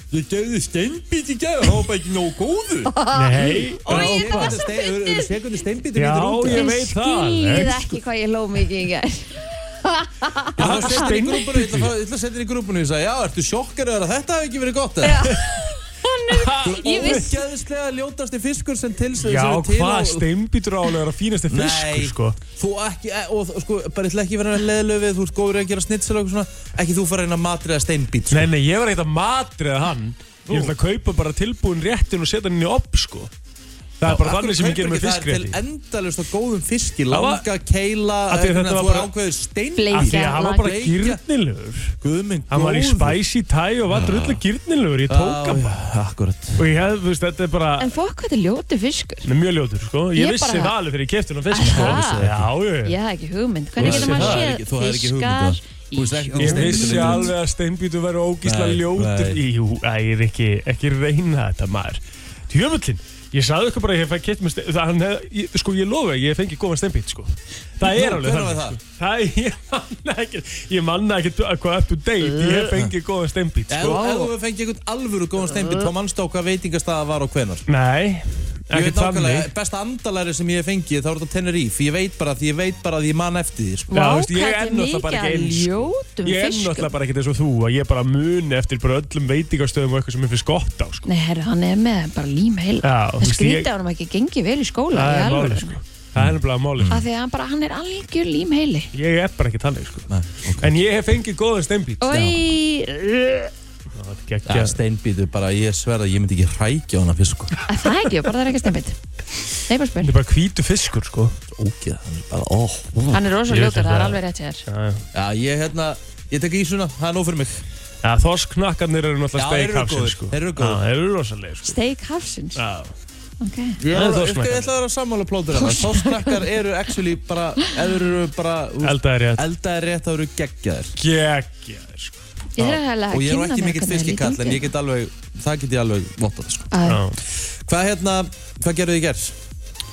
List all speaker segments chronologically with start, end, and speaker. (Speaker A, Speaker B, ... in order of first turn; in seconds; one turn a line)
Speaker A: 0.1-2.9
Speaker B: 2.9-5.3
Speaker C: 3.1-4.6
Speaker A: 3.8-6.7
Speaker C: 5.9-8.0
Speaker B: 6.5-11.1
Speaker C: 10.6-11.9
Speaker A: 10.6-15.3
Speaker B: 15.0-17.3
Speaker C: 16.3-17.3
Speaker A: 16.6-20.3
Speaker C: 19.2-22.4
Speaker A: 21.5-28.5
Speaker C: 28.3-33.3
Speaker A: 30.5-30.8
Speaker C: 34.0-35.6
Speaker A: 34.0-41.2
Speaker C: 37.1-37.4
Speaker C: 38.3-39.1
Speaker B: 39.7-40.7
Speaker C: 39.9-41.9
Speaker A: 42.0-43.2
Speaker C: 42.5-45.8
Speaker A: 43.9-44.4
Speaker A: 45.1-46.7
Speaker C: 46.6-47.9
Speaker B: 47.8-49.3
Speaker C: 49.2-53.0
Speaker B: 50.2-50.7
Speaker B: 51.5-52.2
Speaker A: 51.6-52.5
Speaker B: 52.8-57.3
Speaker C: 53.8-54.5
Speaker A: 53.8-57.3
Speaker C: 56.4-74.0
Speaker A: 58.4-59.4
Speaker A: 67.8-68.8
Speaker A: 72.5-72.9
Speaker A: 73.7-77.7
Speaker B: 73.8-74.3
Speaker B: 75.6-75.9
Speaker C: 77.7-79.5
Speaker A: 78.7-83.9
Speaker B: 83.9-86.9
Speaker C: 83.9-91.0
Speaker B: 91.1-95.8
Speaker C: 92.8-93.7
Speaker C: 94.9-97.0
Speaker A: 96.2-97.0
Speaker B: 96.9-98.9
Speaker C: 98.9-100.1
Speaker A: 100.1-100.8
Speaker C: 100.6-102.2
Speaker B: 102.0-103.5
Speaker A: 102.1-102.4
Speaker C: 104.0-104.8
Speaker A: 104.5-107.5
Speaker B: 107.7-109.0
Speaker B: 109.7-110.1
Speaker C: 110.0-111.4
Speaker A: 111.5-113.2
Speaker B: 113.1-114.6
Speaker C: 113.5-115.0
Speaker A: 115.1-117.6
Speaker C: 118.0-121.8
Speaker A: 119.3-120.8
Speaker B: 121.7-122.6
Speaker C: 122.6-122.9
Speaker B: 123.4-123.8
Speaker A: 123.8-131.0
Speaker C: 123.9-124.7
Speaker B: 125.6-126.4
Speaker C: 128.8-129.4
Speaker C: 131.0-132.8
Speaker B: 132.6-134.7
Speaker A: 133.1-136.7
Speaker B: 136.7-137.0
Speaker C: 136.8-137.2
Speaker A: 137.3-139.3